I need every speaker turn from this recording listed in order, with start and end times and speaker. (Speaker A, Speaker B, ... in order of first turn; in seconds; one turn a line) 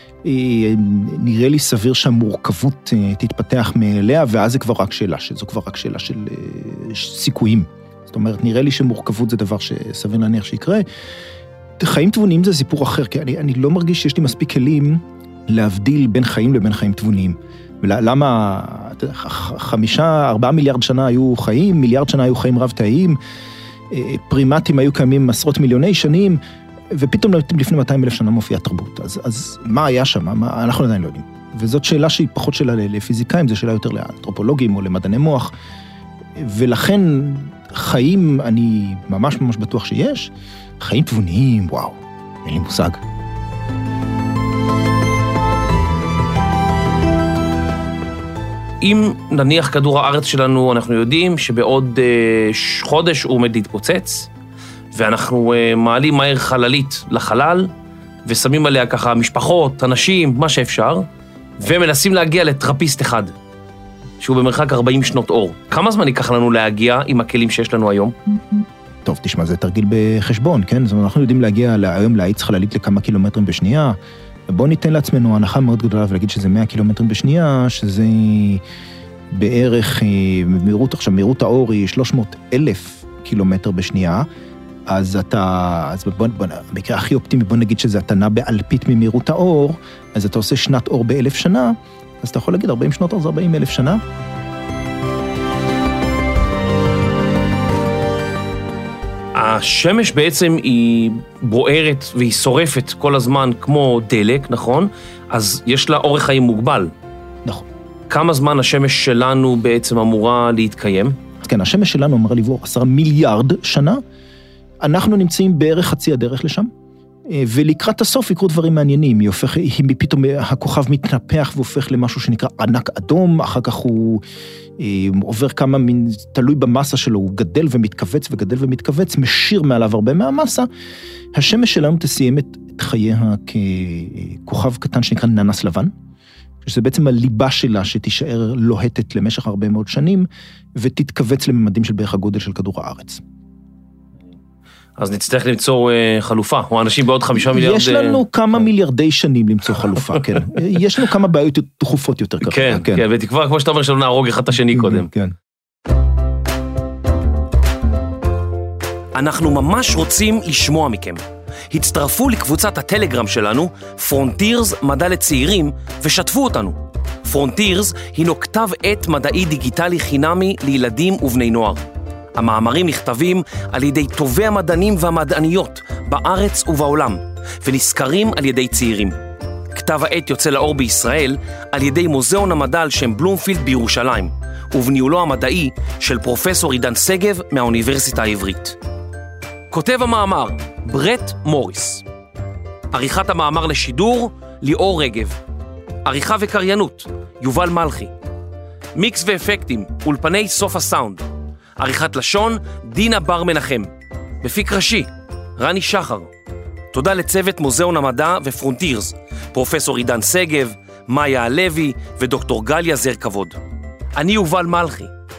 Speaker A: 0.2-10.9
Speaker A: 11.8-23.2
Speaker A: 23.9-26.4
Speaker A: 26.9-35.5
Speaker A: 36.4-43.0
Speaker B: 48.8-54.3
Speaker B: 54.9-57.7
Speaker B: 58.2-61.1
Speaker B: 61.6-63.3
Speaker B: 64.2-68.1
Speaker A: 69.0-74.0
Speaker A: 74.5-78.6
Speaker A: 79.3-84.2
Speaker A: 84.9-94.0
Speaker B: 99.4-106.9
Speaker B: 108.1-111.2
Speaker A: 111.4-114.0
Speaker A: 114.8-116.7
Speaker A: 117.3-124.2
Speaker A: 124.8-130.7
Speaker A: 131.3-135.9
Speaker A: 136.6-143.2
Speaker B: 145.0-148.2
Speaker A: 147.3-153.0
Speaker B: 152.4-155.1
Speaker A: 154.7-155.4
Speaker B: 159.1-171.8
Speaker B: 172.4-179.2
Speaker B: 179.7-188.8
Speaker B: 189.7-192.0
Speaker B: 192.9-195.4
Speaker B: 196.0-198.1
Speaker B: 198.9-201.3
Speaker B: 201.8-203.9
Speaker B: 204.4-206.3
Speaker B: 206.9-213.6
Speaker B: 214.2-215.1